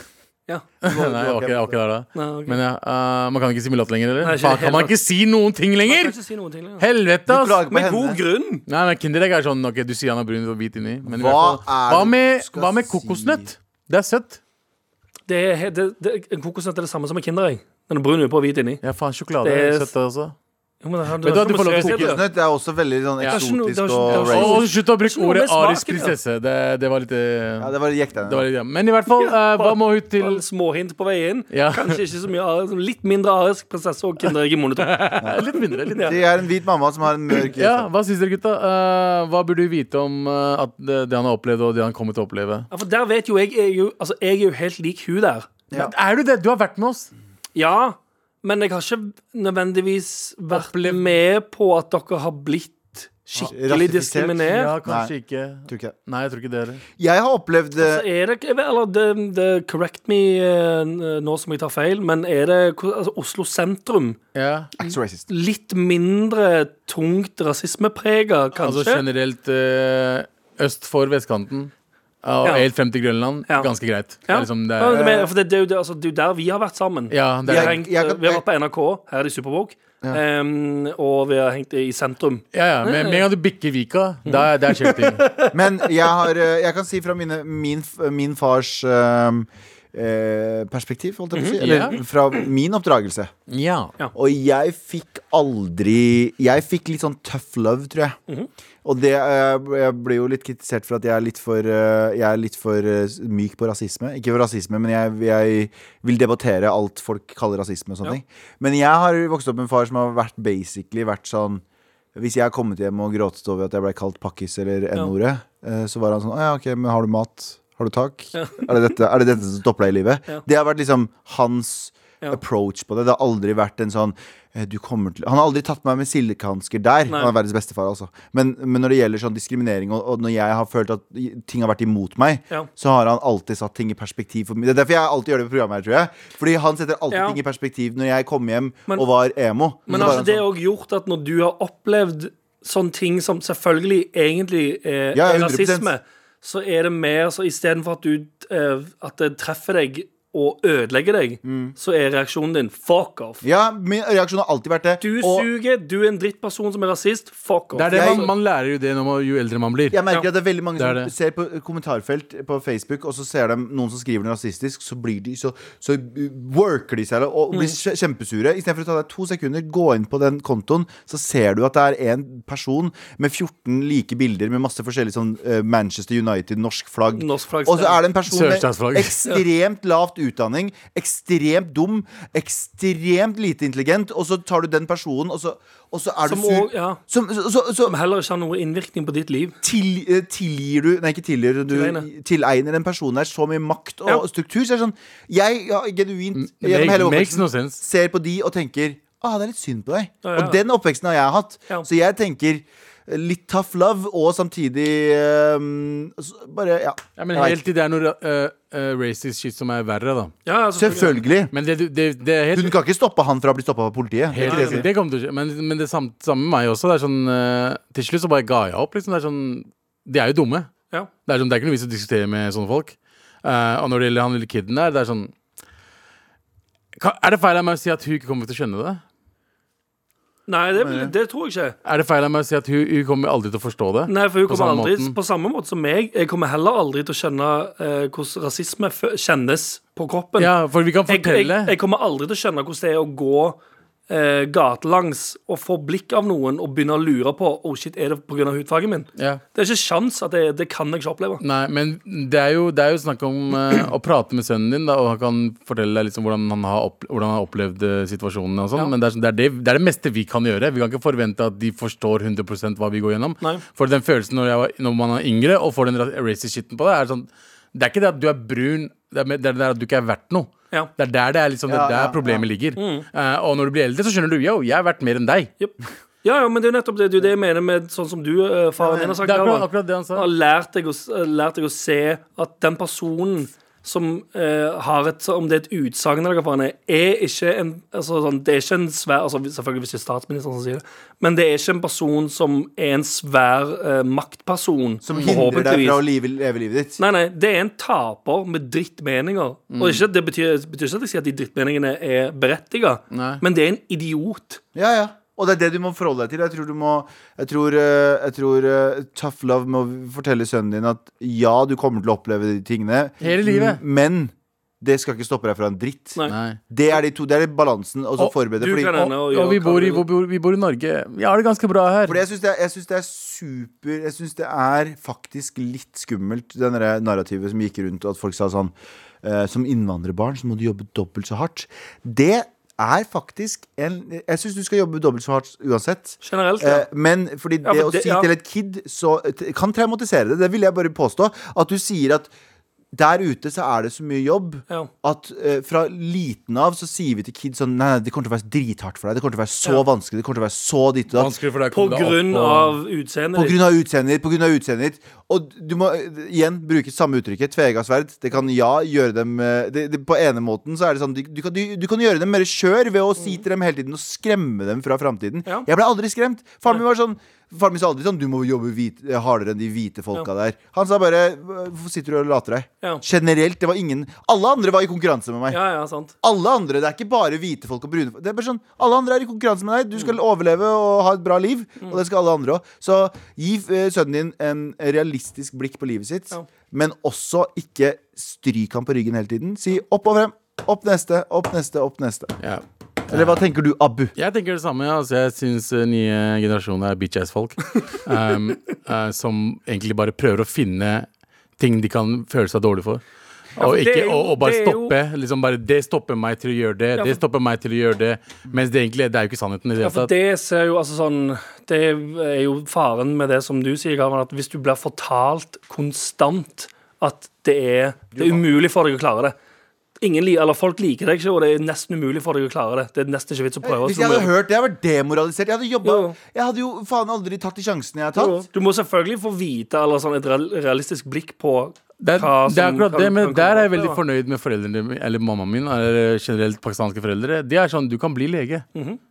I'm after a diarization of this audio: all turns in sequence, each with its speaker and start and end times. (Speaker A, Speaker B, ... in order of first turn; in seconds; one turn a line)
Speaker A: 0.8-6.2
Speaker B: 0.8-1.8
Speaker C: 2.1-2.6
Speaker C: 4.2-4.9
Speaker C: 5.8-6.8
Speaker A: 6.8-7.6
Speaker B: 7.3-8.2
Speaker C: 7.7-8.6
Speaker A: 8.7-14.4
Speaker B: 11.0-13.4
Speaker C: 15.3-18.8
Speaker A: 18.8-20.3
Speaker C: 19.4-19.9
Speaker C: 20.8-22.2
Speaker A: 21.2-22.2
Speaker B: 21.9-24.6
Speaker C: 23.2-26.1
Speaker A: 24.1-30.4
Speaker B: 27.6-28.4
Speaker C: 29.2-35.1
Speaker A: 31.5-32.0
Speaker A: 34.8-36.2
Speaker B: 36.0-37.9
Speaker A: 37.5-42.7
Speaker C: 42.7-45.5
Speaker A: 45.7-47.1
Speaker C: 47.5-54.7
Speaker A: 50.5-51.1
Speaker B: 53.4-55.1
Speaker A: 54.4-56.8
Speaker B: 55.7-55.9
Speaker B: 57.0-58.0
Speaker C: 57.8-64.2
Speaker A: 64.3-64.7
Speaker B: 64.8-65.3
Speaker C: 65.3-69.0
Speaker A: 68.5-71.7
Speaker A: 72.2-75.0
Speaker C: 74.3-83.2
Speaker B: 74.9-75.3
Speaker A: 77.1-77.8
Speaker B: 77.5-78.4
Speaker A: 82.5-85.3
Speaker C: 84.2-85.9
Speaker B: 85.5-93.3
Speaker C: 91.3-92.3
Speaker A: 91.6-92.0
Speaker A: 93.5-93.9
Speaker B: 94.1-98.2
Speaker B: 98.8-111.6
Speaker B: 112.1-140.4
Speaker C: 118.3-118.7
Speaker C: 137.1-137.4
Speaker A: 139.9-140.2
Speaker C: 139.9-153.4
Speaker B: 145.1-145.9
Speaker B: 151.4-151.7
Speaker B: 153.4-155.5
Speaker C: 155.0-158.3
Speaker A: 157.7-160.0
Speaker B: 157.9-158.3
Speaker B: 159.9-187.9
Speaker A: 160.8-161.1
Speaker C: 177.1-178.0
Speaker A: 178.3-179.2
Speaker C: 186.2-187.0
Speaker C: 187.8-189.6
Speaker B: 189.6-207.6
Speaker C: 191.7-192.1
Speaker A: 196.3-197.8
Speaker C: 200.2-200.6
Speaker A: 207.2-210.3
Speaker C: 210.4-211.1
Speaker B: 210.8-211.5
Speaker A: 211.5-212.7
Speaker B: 212.5-214.8
Speaker A: 214.3-220.7
Speaker C: 214.4-214.8
Speaker A: 221.2-225.3
Speaker A: 226.9-229.0
Speaker C: 230.5-231.8
Speaker B: 230.8-231.1
Speaker A: 231.8-235.1
Speaker C: 234.1-240.5
Speaker A: 240.4-241.8
Speaker C: 241.1-251.4
Speaker A: 249.2-249.4
Speaker A: 251.4-275.5
Speaker B: 271.7-272.4
Speaker C: 272.8-273.1
Speaker C: 275.6-296.0
Speaker B: 278.8-279.2
Speaker A: 279.2-280.3
Speaker B: 295.0-297.0
Speaker C: 297.0-304.6
Speaker A: 299.7-300.0
Speaker A: 303.1-303.4
Speaker B: 304.7-316.2
Speaker A: 313.2-313.8
Speaker A: 316.3-316.6
Speaker B: 316.7-319.1
Speaker C: 318.5-320.0
Speaker A: 319.3-322.2
Speaker B: 322.1-342.3
Speaker C: 336.2-336.9
Speaker C: 337.6-338.3
Speaker B: 342.9-351.3
Speaker A: 351.1-352.8
Speaker C: 351.7-353.6
Speaker B: 353.3-375.6
Speaker C: 375.5-376.1
Speaker B: 376.2-392.4
Speaker A: 392.4-393.4
Speaker B: 393.1-394.1
Speaker A: 394.1-401.1
Speaker A: 401.6-403.0
Speaker C: 403.6-404.9
Speaker A: 403.6-410.1
Speaker C: 409.8-419.3
Speaker B: 418.1-418.4
Speaker C: 420.0-424.3
Speaker B: 423.6-428.4
Speaker C: 425.8-426.2
Speaker C: 428.1-434.0
Speaker A: 432.0-438.6
Speaker C: 438.7-439.0